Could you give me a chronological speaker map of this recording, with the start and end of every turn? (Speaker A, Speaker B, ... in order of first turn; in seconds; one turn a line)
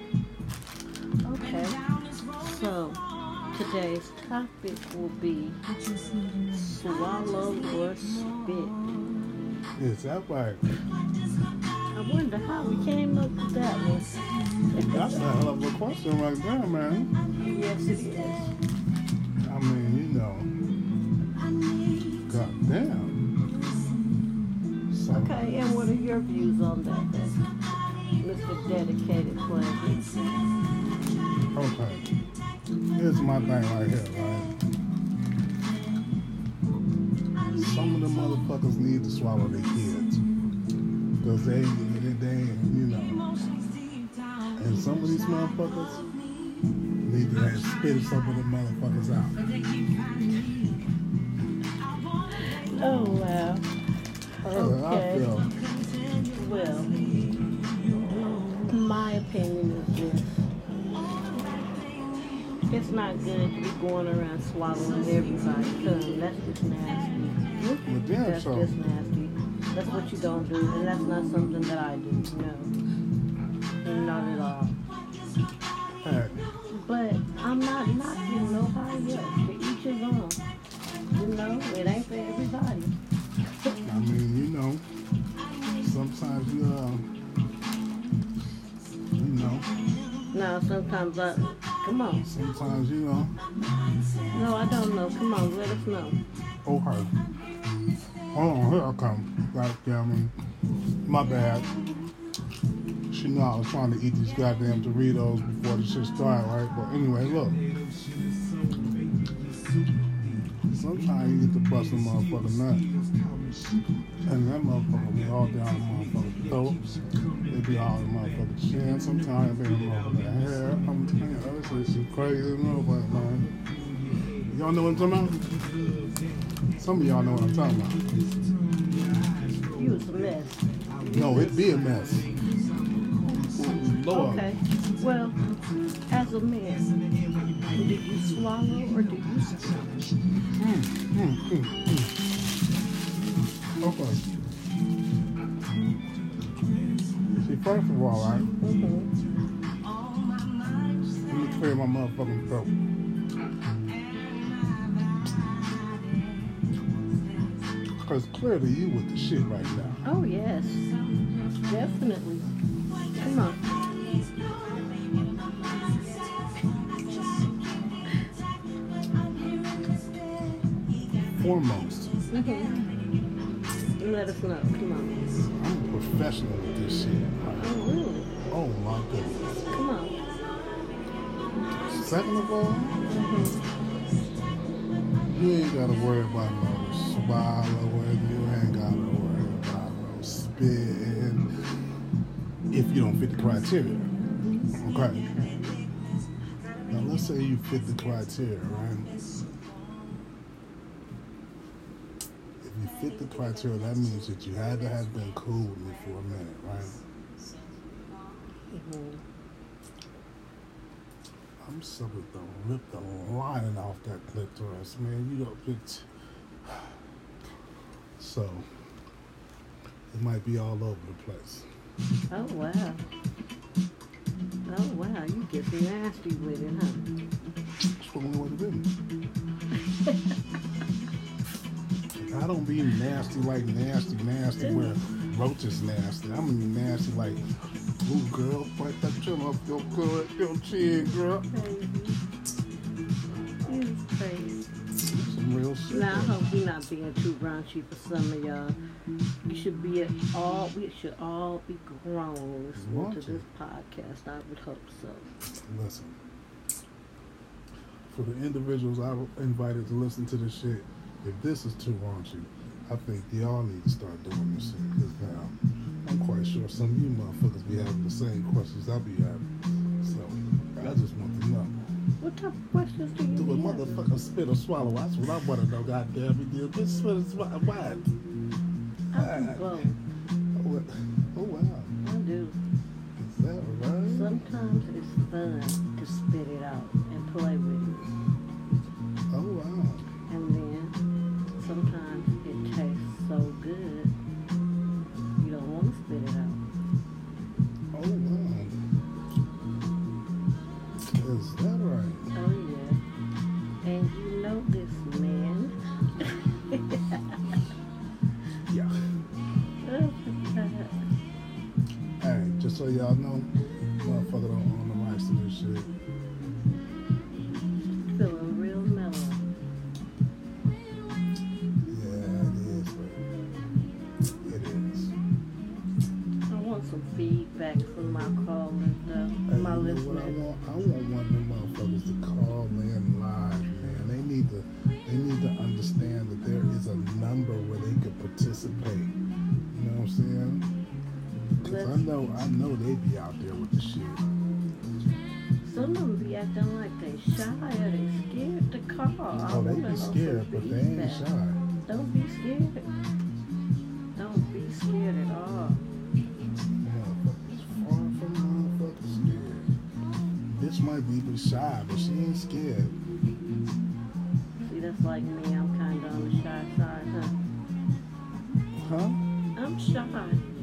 Speaker A: 1.2-5.6
Speaker A: 6.5-8.8
Speaker B: 9.8-10.7
Speaker A: 11.9-15.3
Speaker B: 14.9-17.1
Speaker A: 17.4-18.6
Speaker B: 19.4-20.5
Speaker B: 22.1-23.3
Speaker B: 24.9-25.5
Speaker A: 25.1-27.4
Speaker A: 28.1-30.1
Speaker B: 31.5-32.1
Speaker B: 32.9-34.6
Speaker B: 37.5-40.2
Speaker B: 41.2-43.3
Speaker B: 44.5-46.1
Speaker B: 47.0-49.4
Speaker A: 50.3-50.5
Speaker A: 52.3-53.7
Speaker A: 54.4-55.3
Speaker B: 54.4-55.6
Speaker A: 56.1-57.3
Speaker A: 58.6-60.5
Speaker A: 62.5-72.7
Speaker B: 67.8-68.8
Speaker A: 73.8-74.8
Speaker B: 76.0-76.5
Speaker A: 76.7-80.4
Speaker A: 81.1-83.0
Speaker B: 83.8-84.8
Speaker B: 85.7-87.1
Speaker B: 89.1-89.7
Speaker A: 90.3-92.3
Speaker B: 92.2-93.3
Speaker A: 94.3-96.2
Speaker B: 96.7-97.2
Speaker B: 98.2-100.3
Speaker B: 101.1-101.7
Speaker B: 103.1-107.7
Speaker B: 110.6-113.0
Speaker B: 114.2-123.6
Speaker B: 124.4-125.8
Speaker B: 126.7-128.4
Speaker A: 129.7-131.7
Speaker B: 131.1-132.4
Speaker B: 133.2-134.6
Speaker A: 134.1-135.4
Speaker A: 136.1-136.9
Speaker A: 137.7-139.9
Speaker B: 140.6-142.2
Speaker B: 143.8-144.3
Speaker B: 147.3-148.6
Speaker A: 148.6-149.1
Speaker B: 151.2-152.8
Speaker B: 158.0-160.0
Speaker A: 160.1-160.9
Speaker A: 161.6-162.5
Speaker A: 163.1-163.7
Speaker B: 171.3-172.3
Speaker A: 172.3-172.8
Speaker A: 174.0-175.2
Speaker B: 175.6-177.8
Speaker A: 177.6-178.3
Speaker B: 178.5-179.8
Speaker A: 179.7-180.2
Speaker B: 181.7-183.0
Speaker A: 183.0-183.6
Speaker B: 185.3-191.5
Speaker B: 192.7-194.2
Speaker B: 194.7-195.3
Speaker A: 195.2-195.8
Speaker B: 196.9-199.4
Speaker B: 202.6-207.0
Speaker A: 208.7-209.2
Speaker B: 211.6-216.1
Speaker B: 216.6-217.0
Speaker B: 218.2-218.7
Speaker B: 220.1-221.7
Speaker A: 222.3-223.0
Speaker A: 224.7-227.1
Speaker B: 227.8-228.9
Speaker A: 229.8-230.3
Speaker B: 232.2-237.4
Speaker A: 234.6-235.0
Speaker B: 238.0-241.5
Speaker A: 241.5-242.2
Speaker A: 243.7-244.7
Speaker B: 245.0-246.5
Speaker A: 245.9-248.8
Speaker A: 249.5-255.3
Speaker B: 252.8-253.4
Speaker B: 255.7-256.2
Speaker B: 258.1-269.5
Speaker B: 270.0-271.9
Speaker A: 272.2-274.1
Speaker B: 273.3-278.1
Speaker A: 279.1-280.0
Speaker B: 279.1-279.8
Speaker B: 280.6-281.9
Speaker A: 282.0-282.6
Speaker B: 283.2-284.3
Speaker A: 284.1-288.1
Speaker B: 289.3-290.1
Speaker A: 290.3-291.0
Speaker A: 291.6-294.1
Speaker A: 295.4-296.6
Speaker B: 297.9-298.8
Speaker B: 301.0-302.3
Speaker A: 302.3-303.0
Speaker A: 303.8-307.6
Speaker B: 308.7-308.9
Speaker A: 309.8-311.1
Speaker B: 312.2-313.5
Speaker B: 314.0-315.9
Speaker A: 318.1-319.4
Speaker B: 321.9-323.2
Speaker B: 324.4-325.1
Speaker A: 326.5-330.4
Speaker B: 329.5-339.1
Speaker B: 339.7-340.7
Speaker B: 341.6-344.3
Speaker A: 341.6-342.1
Speaker A: 345.6-351.3
Speaker B: 349.5-351.6
Speaker A: 351.9-352.9
Speaker A: 354.2-355.8
Speaker B: 356.8-359.8
Speaker B: 360.5-363.0
Speaker A: 364.6-367.4
Speaker B: 368.8-369.2
Speaker A: 369.6-370.5